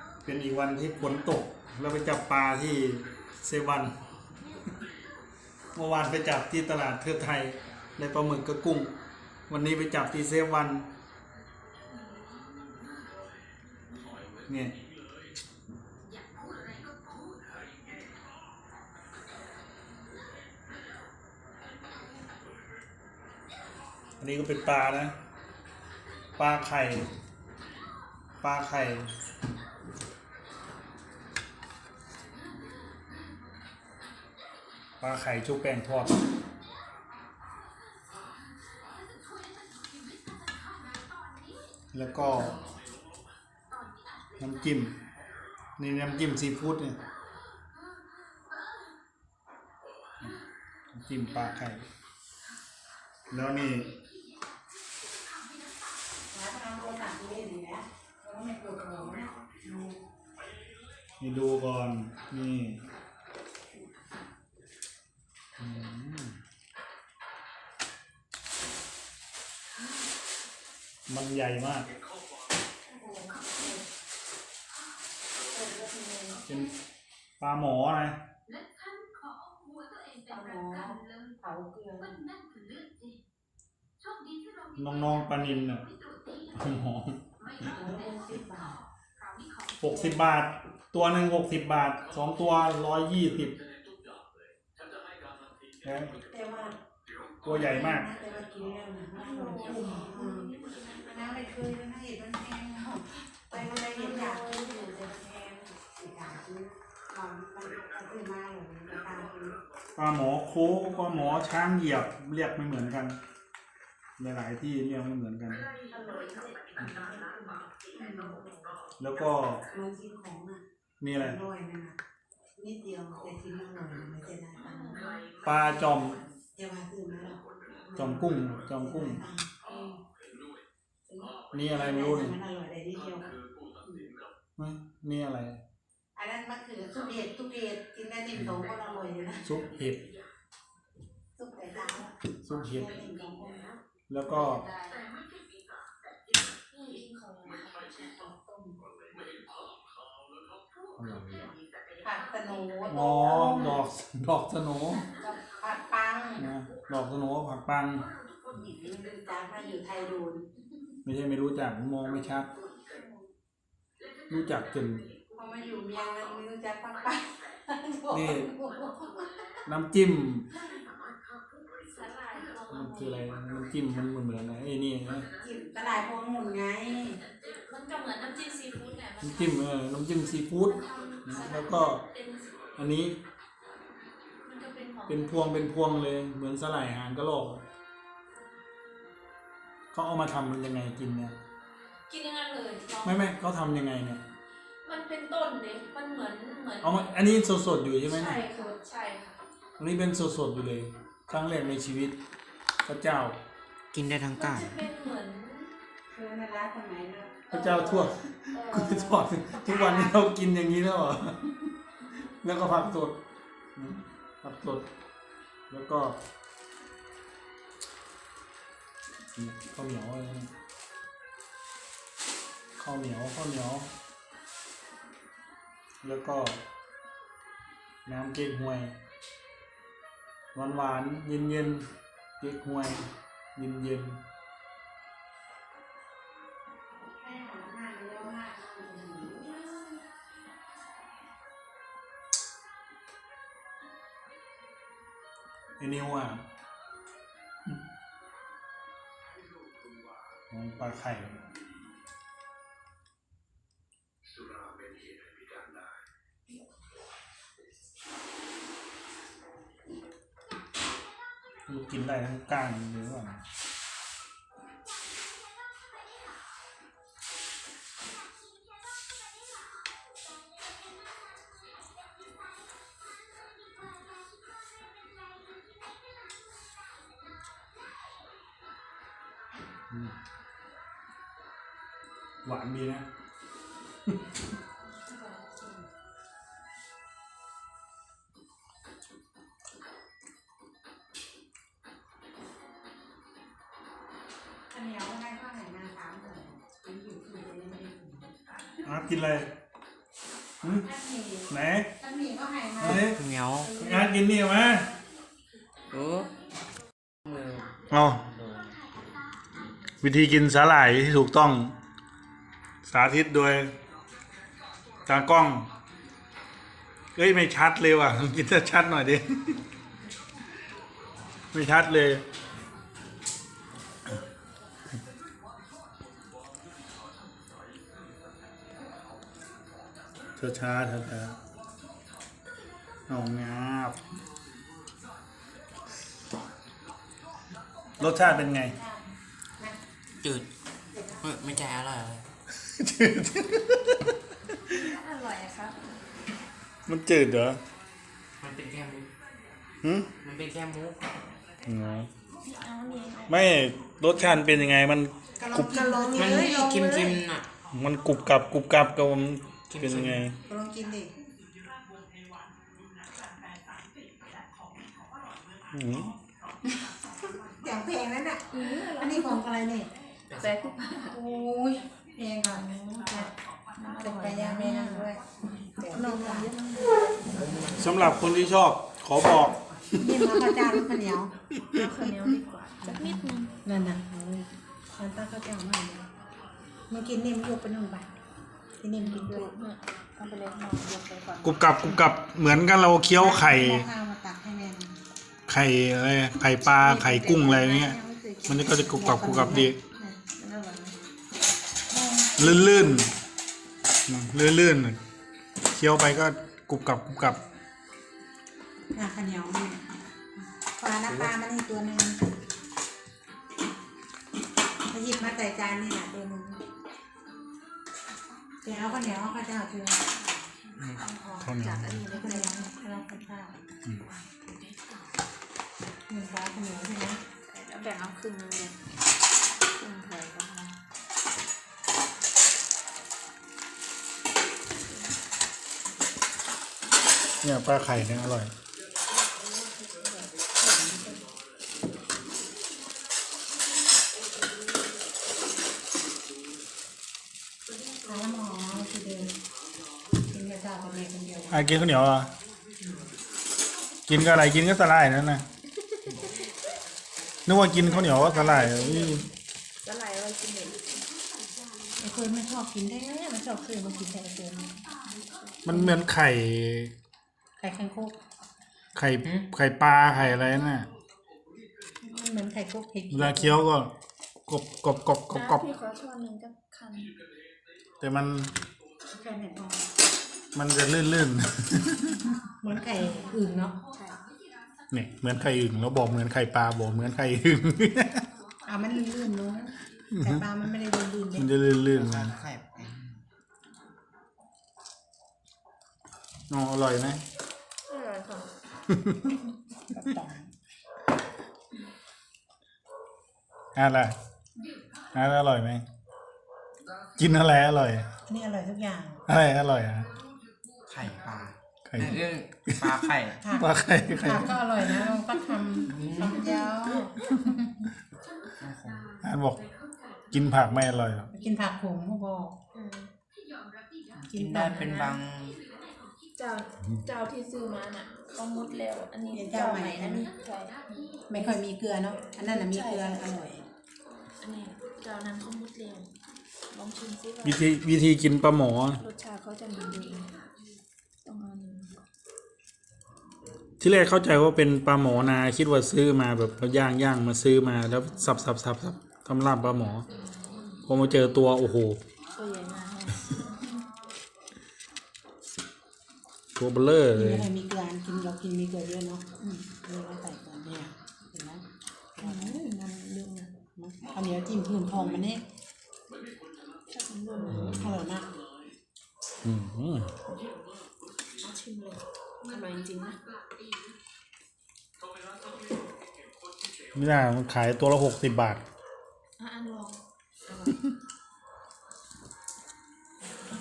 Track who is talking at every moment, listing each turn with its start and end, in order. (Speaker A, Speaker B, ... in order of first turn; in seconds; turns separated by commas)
Speaker A: 0.2-4.0, Speaker A: 5.7-8.9, Speaker A: 9.5-10.9, Speaker A: 14.5-14.7, Speaker A: 24.2-25.1, Speaker A: 26.4-27.1, Speaker A: 28.4-29.1, Speaker A: 35.0-36.2, Speaker A: 41.9-42.6, Speaker A: 44.4-45.0, Speaker A: 45.8-47.0, Speaker A: 50.9-51.9, Speaker A: 53.3-53.9, Speaker B: 56.3-60.0, Speaker A: 61.2-62.8, Speaker A: 65.6-66.4, Speaker A: 71.1-71.9, Speaker B: 72.9-73.8, Speaker B: 75.4-76.5, Speaker A: 77.4-78.2, Speaker B: 80.3-82.2, Speaker A: 84.8-85.8, Speaker A: 86.5-87.2, Speaker B: 87.6-88.8, Speaker A: 89.8-93.6, Speaker B: 89.9-90.2, Speaker A: 95.8-96.1, Speaker B: 96.2-96.8, Speaker A: 97.4-98.1, Speaker B: 97.5-109.6, Speaker C: 99.1-101.1, Speaker C: 103.5-105.0, Speaker A: 110.0-113.2, Speaker A: 114.2-115.7, Speaker C: 115.9-117.6, Speaker B: 116.8-117.3, Speaker B: 117.9-118.5, Speaker A: 119.0-119.6, Speaker B: 119.7-120.6, Speaker A: 121.0-121.4, Speaker B: 121.1-122.0, Speaker B: 122.6-130.0, Speaker C: 124.6-125.3, Speaker A: 125.4-126.2, Speaker A: 128.0-129.2, Speaker B: 131.1-134.1, Speaker A: 131.5-132.3, Speaker A: 134.6-135.6, Speaker B: 136.1-139.5, Speaker A: 139.4-140.1, Speaker B: 141.3-143.7, Speaker A: 142.4-143.0, Speaker A: 144.1-144.7, Speaker C: 146.7-148.3, Speaker B: 148.3-148.7, Speaker A: 151.0-151.5, Speaker B: 152.0-153.8, Speaker A: 152.9-155.0, Speaker B: 155.1-156.5, Speaker A: 156.4-158.1, Speaker B: 158.5-160.5, Speaker A: 161.0-162.5, Speaker B: 162.8-163.2, Speaker A: 164.3-165.1, Speaker B: 165.3-169.6, Speaker A: 168.1-168.5, Speaker A: 169.7-170.5, Speaker C: 171.8-173.2, Speaker A: 172.7-175.3, Speaker B: 175.4-177.2, Speaker C: 177.6-179.6, Speaker A: 179.2-182.0, Speaker C: 180.6-182.7, Speaker A: 182.8-183.2, Speaker C: 184.4-185.4, Speaker A: 185.1-187.6, Speaker A: 189.9-191.3, Speaker C: 192.1-193.3, Speaker A: 193.0-194.2, Speaker C: 194.8-197.0, Speaker A: 196.8-198.4, Speaker C: 198.0-199.3, Speaker A: 199.8-202.2, Speaker A: 202.8-203.4, Speaker D: 203.9-204.8, Speaker C: 204.3-205.7, Speaker B: 206.1-207.4, Speaker C: 207.5-210.2, Speaker A: 207.5-211.6, Speaker A: 212.4-213.2, Speaker A: 213.8-214.9, Speaker A: 215.7-216.2, Speaker A: 219.3-220.5, Speaker A: 222.8-223.9, Speaker A: 226.0-226.6, Speaker A: 228.1-228.9, Speaker A: 230.5-231.9, Speaker A: 232.4-234.2, Speaker B: 237.1-240.0, Speaker A: 245.8-246.4, Speaker A: 250.5-251.4, Speaker A: 261.7-263.4, Speaker A: 282.4-283.1, Speaker A: 284.1-284.3, Speaker B: 284.9-285.8, Speaker B: 294.7-298.3, Speaker A: 298.8-299.5, Speaker A: 300.6-300.9, Speaker B: 300.8-303.1, Speaker A: 301.5-301.9, Speaker A: 302.8-304.9, Speaker D: 302.8-303.8, Speaker D: 305.9-306.3, Speaker D: 307.2-308.8, Speaker A: 307.9-308.2, Speaker A: 310.0-311.7, Speaker A: 312.8-313.7, Speaker A: 315.1-315.7, Speaker A: 317.1-319.6, Speaker A: 321.5-322.2, Speaker A: 330.4-331.4, Speaker A: 333.1-334.0, Speaker B: 338.0-339.8, Speaker A: 338.0-338.8, Speaker D: 340.2-340.5, Speaker B: 340.9-341.2, Speaker D: 341.2-342.3, Speaker A: 342.6-344.1, Speaker C: 344.7-345.8, Speaker A: 346.9-347.6, Speaker D: 348.4-349.1, Speaker A: 349.8-350.1, Speaker D: 350.2-351.1, Speaker A: 351.6-352.1, Speaker C: 352.4-354.7, Speaker A: 353.3-356.2, Speaker B: 355.4-357.2, Speaker D: 356.1-357.5, Speaker A: 357.7-360.4, Speaker D: 359.7-360.2, Speaker B: 360.4-361.1, Speaker A: 365.7-366.1, Speaker B: 367.5-369.9, Speaker C: 368.5-369.4, Speaker D: 370.3-370.5, Speaker C: 370.3-371.2, Speaker B: 371.1-373.3, Speaker C: 373.8-375.2, Speaker B: 374.0-375.2, Speaker C: 375.7-377.3, Speaker B: 375.8-376.5, Speaker D: 377.3-377.9, Speaker A: 377.8-380.3, Speaker B: 380.0-381.3, Speaker C: 381.7-383.5, Speaker B: 382.8-386.1, Speaker B: 386.9-388.1, Speaker B: 388.8-389.5, Speaker C: 389.0-391.7, Speaker A: 391.4-393.9, Speaker B: 393.1-394.9, Speaker A: 395.5-398.0, Speaker C: 396.8-401.0, Speaker B: 396.9-397.9, Speaker A: 398.5-399.8, Speaker B: 398.9-399.7, Speaker B: 401.9-402.9, Speaker A: 402.4-403.1, Speaker A: 404.1-405.0, Speaker A: 405.7-407.4, Speaker B: 408.9-409.8, Speaker B: 410.6-412.2, Speaker B: 414.9-416.6, Speaker B: 418.6-420.0, Speaker C: 418.7-419.2, Speaker C: 420.1-420.4, Speaker A: 420.8-422.1, Speaker C: 421.0-422.7, Speaker B: 422.1-423.6, Speaker B: 426.1-427.2, Speaker C: 427.4-428.8, Speaker C: 429.7-430.8, Speaker C: 434.9-435.1, Speaker A: 437.4-438.5, Speaker C: 439.7-440.9, Speaker B: 440.6-441.1, Speaker B: 448.0-449.3, Speaker B: 450.2-451.8, Speaker A: 451.5-452.3, Speaker B: 452.8-453.1, Speaker A: 454.1-455.4, Speaker A: 457.4-459.2, Speaker C: 457.7-459.3, Speaker C: 459.8-461.1, Speaker B: 462.0-464.8, Speaker A: 465.6-466.9, Speaker B: 465.7-466.0, Speaker B: 467.6-468.1, Speaker A: 468.9-470.9, Speaker B: 472.0-473.6, Speaker A: 473.1-473.9, Speaker A: 474.5-475.6, Speaker C: 475.3-477.1, Speaker A: 478.0-478.5, Speaker B: 479.1-479.9, Speaker A: 480.5-482.3, Speaker B: 482.6-483.8, Speaker C: 483.9-484.2, Speaker A: 484.9-488.2, Speaker B: 488.6-491.5, Speaker A: 490.1-490.4, Speaker A: 491.4-492.4, Speaker D: 491.9-493.2, Speaker A: 496.5-497.2, Speaker C: 497.9-498.5, Speaker A: 498.9-499.3, Speaker B: 499.9-500.5, Speaker A: 503.8-504.1, Speaker A: 505.1-505.9, Speaker A: 507.2-508.1, Speaker B: 508.3-509.2, Speaker A: 509.3-510.1, Speaker D: 510.9-513.4, Speaker A: 511.9-512.2, Speaker B: 513.4-517.9, Speaker A: 513.5-515.1, Speaker D: 515.9-516.7, Speaker D: 518.6-519.1, Speaker A: 519.2-519.6, Speaker A: 520.3-521.3, Speaker B: 521.3-522.5, Speaker C: 522.7-523.1, Speaker C: 524.3-525.2, Speaker D: 524.3-525.6, Speaker C: 526.4-531.6, Speaker B: 529.3-530.3, Speaker B: 531.3-533.6, Speaker C: 532.3-533.3, Speaker C: 534.4-536.1, Speaker C: 536.7-537.6, Speaker A: 537.4-539.0, Speaker C: 539.0-540.3, Speaker C: 541.2-541.9, Speaker A: 543.8-550.0, Speaker C: 550.2-550.8, Speaker A: 550.9-552.0, Speaker C: 552.3-553.7, Speaker A: 556.5-557.5, Speaker B: 557.1-561.6, Speaker B: 562.2-562.6, Speaker C: 562.2-563.5, Speaker B: 563.8-565.4, Speaker C: 566.9-567.9, Speaker B: 567.4-568.3, Speaker A: 567.5-568.0, Speaker A: 569.4-570.1, Speaker C: 571.4-573.2, Speaker A: 576.9-578.6, Speaker C: 579.4-580.8